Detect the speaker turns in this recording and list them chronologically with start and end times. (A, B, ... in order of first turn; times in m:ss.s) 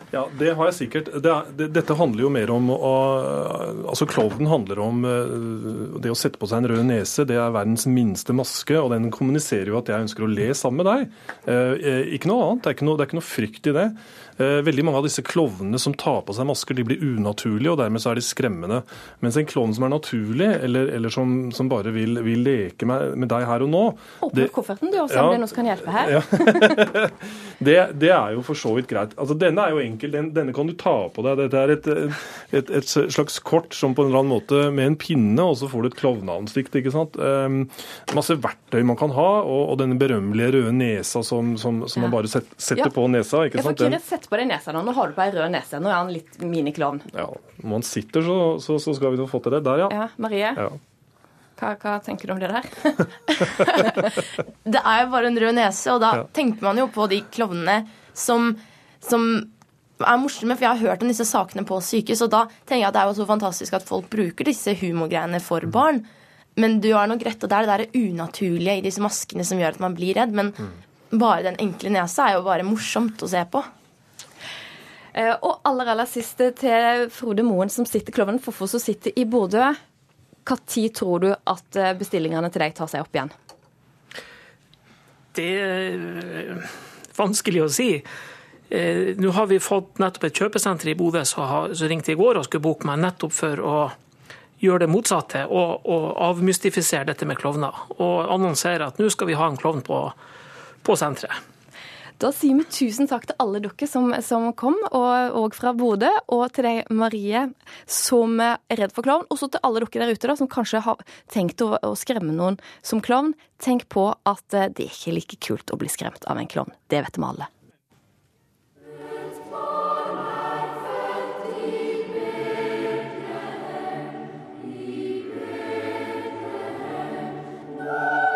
0:00.1-0:24.5 A
0:24.2-0:26.7 B
0:25.1-0:44.0 A
0:43.5-0:47.0 B
0:47.1-0:49.9 A
0:49.9-0:50.6 B
0:51.6-0:54.0 B
0:54.6-1:10.6 C
1:11.1-1:13.7 C
1:15.1-1:19.8 B
1:20.4-1:23.3 B
1:25.3-1:28.1 D
1:28.7-1:34.0 D
1:34.6-1:40.2 D
1:40.8-1:41.4 D
1:42.2-1:57.5 B